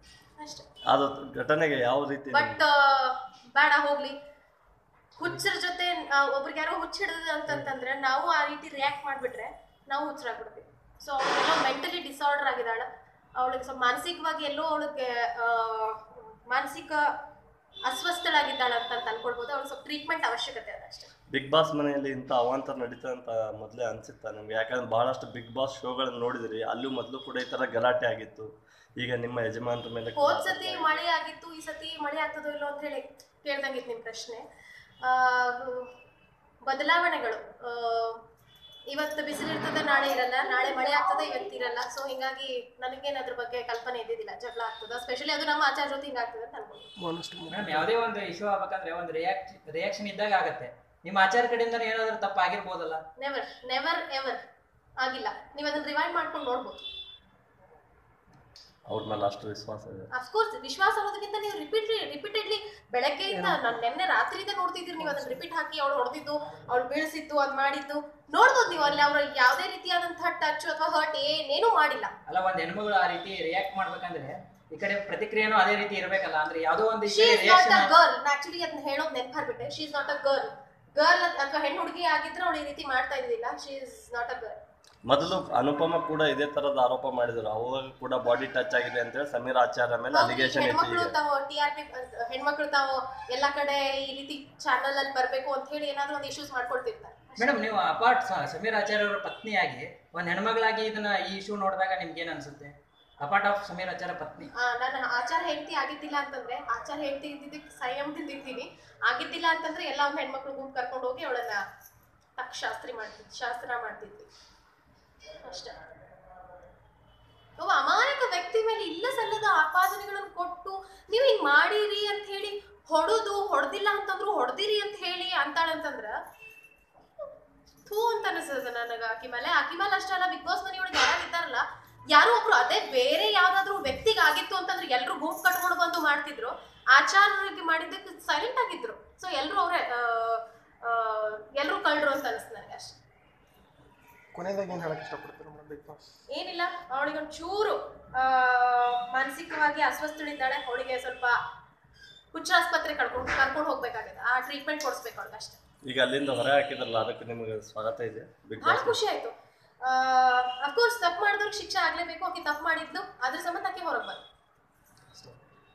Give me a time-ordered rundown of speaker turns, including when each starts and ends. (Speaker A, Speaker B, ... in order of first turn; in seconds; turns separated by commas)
Speaker A: 0.4-0.7, Speaker B: 0.9-2.6, Speaker A: 2.3-4.2, Speaker A: 5.2-17.1, Speaker A: 17.9-21.1, Speaker B: 21.3-31.0, Speaker A: 30.1-34.4, Speaker A: 35.0-35.9, Speaker A: 36.6-38.2, Speaker A: 38.9-46.9, Speaker C: 47.0-47.9, Speaker D: 47.5-53.0, Speaker A: 53.2-54.4, Speaker A: 55.0-56.8, Speaker B: 58.9-60.1, Speaker A: 60.1-72.1, Speaker C: 63.3-63.7, Speaker C: 65.0-65.4, Speaker D: 72.3-77.9, Speaker A: 77.1-84.6, Speaker B: 85.1-91.1, Speaker A: 90.1-97.5, Speaker D: 97.4-104.5, Speaker A: 104.5-111.6, Speaker A: 112.4-114.3, Speaker A: 115.3-115.8, Speaker A: 117.6-126.1, Speaker A: 127.8-143.0, Speaker C: 144.3-146.0, Speaker A: 146.3-151.3, Speaker A: 152.3-155.6, Speaker B: 155.8-159.0, Speaker A: 158.6-164.2